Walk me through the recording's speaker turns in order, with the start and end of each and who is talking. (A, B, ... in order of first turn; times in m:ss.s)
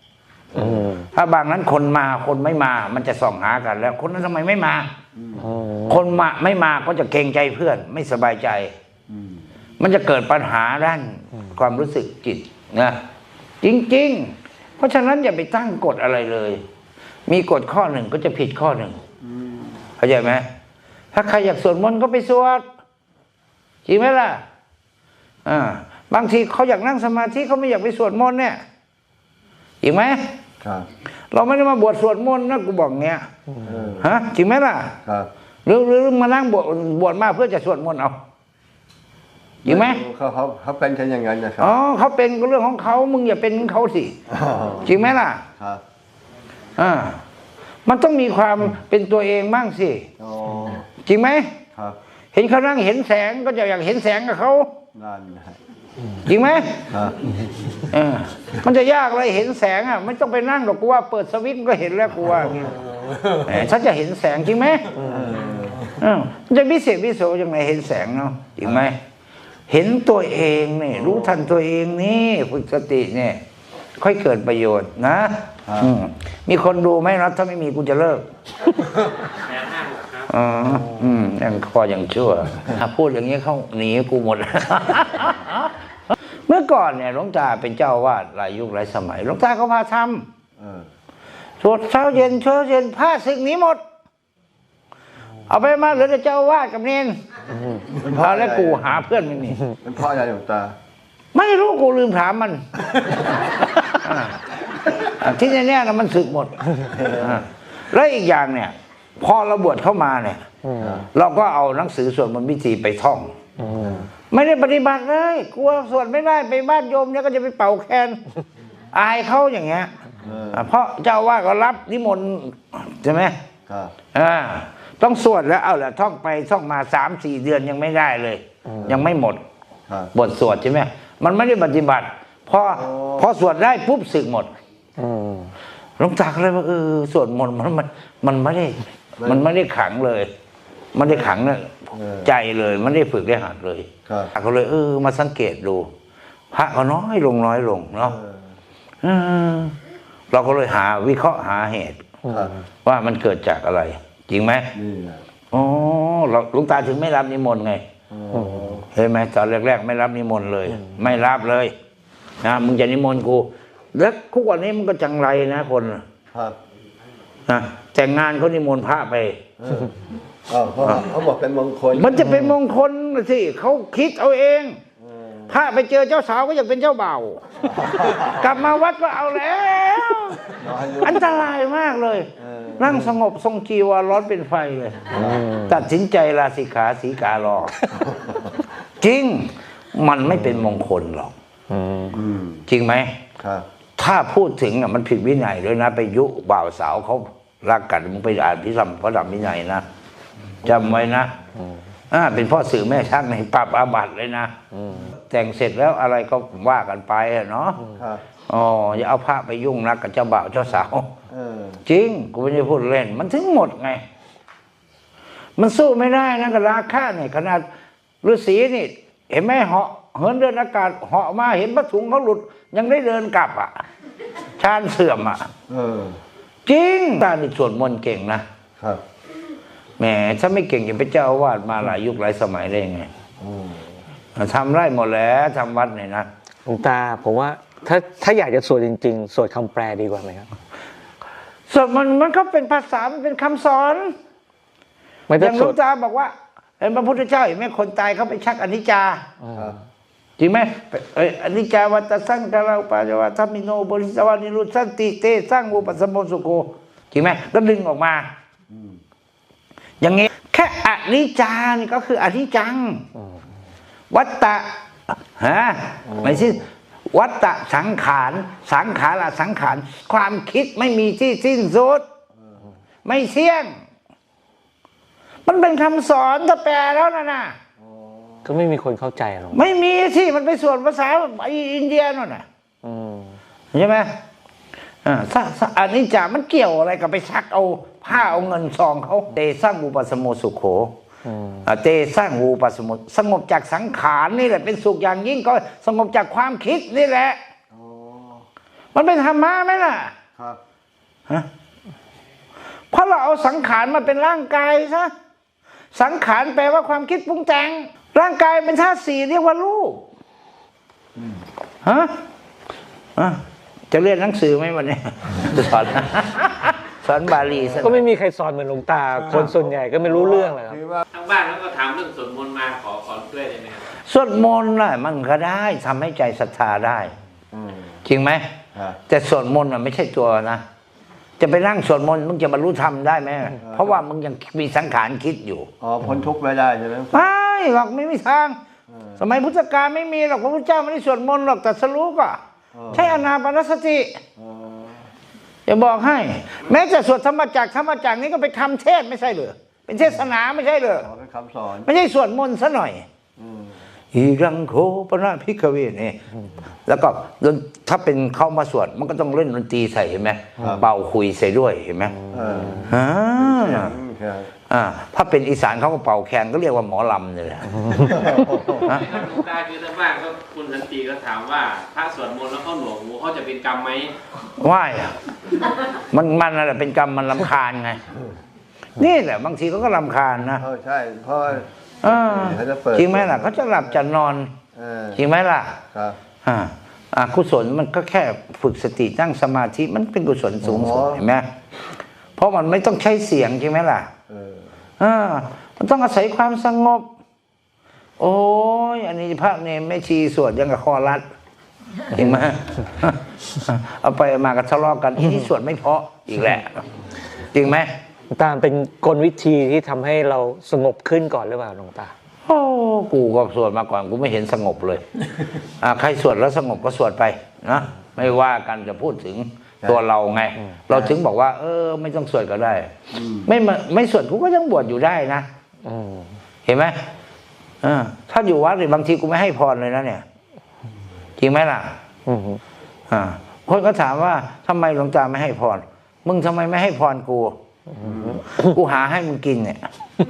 0:00.6-0:01.1 A
0:00.6-0:00.9 B
0:01.1-0:04.9 C
0:05.2-0:05.5 B
0:05.4-0:06.0 A
0:05.9-0:08.7 C
0:09.1-0:09.4 B
0:09.8-0:13.0 C
0:13.6-0:16.6 C
0:17.3-0:19.0 C
0:19.2-0:19.8 B
0:20.0-0:20.5 C
0:21.1-0:22.6 C
0:23.9-0:24.4 C
0:25.5-0:28.6 C
0:29.8-0:30.4 C
0:30.6-0:30.9 B
0:31.3-0:33.2 C
0:33.6-0:34.1 B
0:34.0-0:35.0 C
0:35.7-0:38.2 C
0:39.6-0:40.0 C
0:39.6-0:41.8 B
0:41.6-0:44.2 C
0:44.3-0:45.0 B
0:44.8-0:45.4 C
0:45.6-0:45.8 B
0:46.8-0:47.2 C
0:47.9-0:50.1 C
0:50.2-0:50.9 B
0:51.0-0:51.5 C
0:52.3-0:54.7 C
0:55.0-0:55.6 B
0:56.2-0:56.8 C
0:56.8-0:57.4 B
0:57.9-1:02.7 C
1:03.3-1:05.0 C
1:05.0-1:06.0 B
1:06.0-1:09.0 C
1:09.7-1:13.4 C
1:14.0-1:18.3 C
1:15.7-1:15.9 B
1:19.4-1:20.3 D
1:20.3-1:25.7 C
1:26.5-1:30.3 C
1:30.6-1:30.9 B
1:31.6-1:33.8 C
1:35.5-1:37.2 C
1:37.9-1:39.0 B
1:38.2-1:39.6 C
1:39.7-1:40.8 B
1:41.3-1:44.4 C
1:45.0-1:50.4 C
1:46.8-1:47.4 B
1:50.6-1:51.0 A
1:50.8-1:51.1 B
1:51.1-1:53.4 C
1:53.6-1:53.9 A
1:53.8-1:54.1 B
1:54.3-1:58.2 C
1:58.9-1:59.9 C
2:00.2-2:00.7 B
2:00.5-2:03.4 C
2:03.7-2:04.0 B
2:04.1-2:09.4 C
2:08.7-2:09.1 B
2:10.1-2:14.5 C
2:12.7-2:13.3 B
2:15.0-2:15.5 A
2:16.0-2:20.3 C
2:19.2-2:19.5 B
2:21.0-2:25.9 C
2:21.0-2:21.4 B
2:21.9-2:22.3 B
2:24.1-2:24.3 B
2:26.5-2:28.2 C
2:28.0-2:28.6 B
2:29.0-2:29.8 C
2:30.3-2:32.2 C
2:32.3-2:32.5 A
2:32.3-2:32.6 B
2:32.8-2:34.7 C
2:34.7-2:35.2 B
2:35.5-2:37.8 C
2:38.1-2:38.9 B
2:38.4-2:38.7 A
2:39.0-2:41.7 C
2:42.4-2:46.0 C
2:46.3-2:46.6 B
2:47.5-2:49.4 C
2:49.6-2:49.9 B
2:50.5-2:52.4 B
2:51.9-2:54.8 C
2:55.0-2:55.6 B
2:55.5-2:57.5 C
2:57.6-2:58.5 B
2:58.2-3:05.1 C
3:00.5-3:01.4 B
3:02.4-3:03.0 B
3:05.1-3:05.5 B
3:05.2-3:05.8 A
3:05.7-3:07.8 C
3:07.9-3:08.5 B
3:09.0-3:11.3 C
3:11.7-3:12.2 A
3:12.1-3:12.6 B
3:12.7-3:13.2 C
3:13.4-3:13.7 B
3:14.0-3:19.8 C
3:20.6-3:21.1 B
3:20.6-3:21.3 C
3:22.1-3:24.5 C
3:24.8-3:25.1 A
3:25.2-3:27.8 C
3:28.0-3:28.2 B
3:28.5-3:31.1 C
3:31.3-3:31.8 B
3:31.9-3:34.0 C
3:35.6-3:37.7 C
3:38.2-3:43.8 C
3:44.6-3:45.5 C
3:45.7-3:46.2 B
3:46.7-3:48.4 C
3:50.0-3:53.1 C
3:53.4-3:54.0 B
3:54.4-3:56.3 C
3:56.7-4:00.5 A
4:01.7-4:04.2 C
4:05.3-4:05.8 A
4:05.4-4:09.2 C
4:09.4-4:09.7 A
4:10.4-4:18.3 C
4:18.7-4:19.0 B
4:20.0-4:23.1 C
4:24.1-4:32.0 C
4:26.1-4:26.6 B
4:32.4-4:32.7 B
4:33.0-4:33.8 C
4:35.5-4:37.6 C
4:37.8-4:38.5 B
4:38.4-4:39.6 A
4:39.5-4:42.4 C
4:42.8-4:43.4 A
4:43.7-4:44.1 C
4:45.0-4:51.0 C
4:51.2-4:51.7 A
4:51.6-4:57.4 C
4:57.7-4:58.5 B
4:58.9-5:00.2 C
5:02.9-5:05.1 C
5:05.9-5:10.1 C
5:11.2-5:11.4 B
5:11.8-5:12.2 C
5:13.9-5:18.0 C
5:17.8-5:20.8 A
5:20.0-5:21.0 B
5:21.1-5:23.9 D
5:24.1-5:27.1 C
5:27.5-5:28.0 B
5:28.0-5:28.5 C
5:28.7-5:29.0 B
5:29.1-5:30.6 C
5:31.4-5:35.7 C
5:33.6-5:34.0 B
5:35.8-5:37.3 B
5:37.1-5:38.6 C
5:38.9-5:39.3 B
5:39.2-5:42.4 C
5:42.7-5:43.3 B
5:42.9-5:44.2 C
5:44.4-5:45.1 B
5:45.7-5:51.1 C
5:51.0-5:51.9 B
5:51.8-5:53.1 C
5:53.4-5:53.9 B
5:54.1-5:56.2 C
5:56.9-6:02.2 C
6:00.6-6:00.9 B
6:02.2-6:02.9 A
6:02.3-6:04.5 B
6:02.9-6:04.0 C
6:04.7-6:08.2 C
6:07.7-6:08.1 A
6:07.9-6:08.9 B
6:08.9-6:14.2 D
6:14.6-6:15.2 C
6:16.1-6:18.0 C
6:19.0-6:20.6 C
6:20.6-6:24.0 B
6:22.0-6:24.6 C
6:24.7-6:25.2 B
6:25.2-6:25.8 C
6:25.9-6:26.2 B
6:26.4-6:31.5 C
6:30.6-6:31.2 B
6:32.4-6:34.1 C
6:34.3-6:34.8 B
6:35.0-6:37.1 C
6:38.2-6:41.2 C
6:42.1-6:46.9 C
6:47.5-6:47.9 C
6:48.3-6:52.1 A
6:52.5-6:55.0 C
6:55.8-7:02.9 C
7:03.1-7:03.5 B
7:03.4-7:05.5 C
7:05.8-7:06.3 A
7:06.7-7:07.0 C
7:07.8-7:10.2 C
7:11.4-7:12.0 C
7:12.3-7:12.6 A
7:13.1-7:17.6 C
7:18.0-7:18.4 B
7:18.0-7:18.3 A
7:18.6-7:19.8 C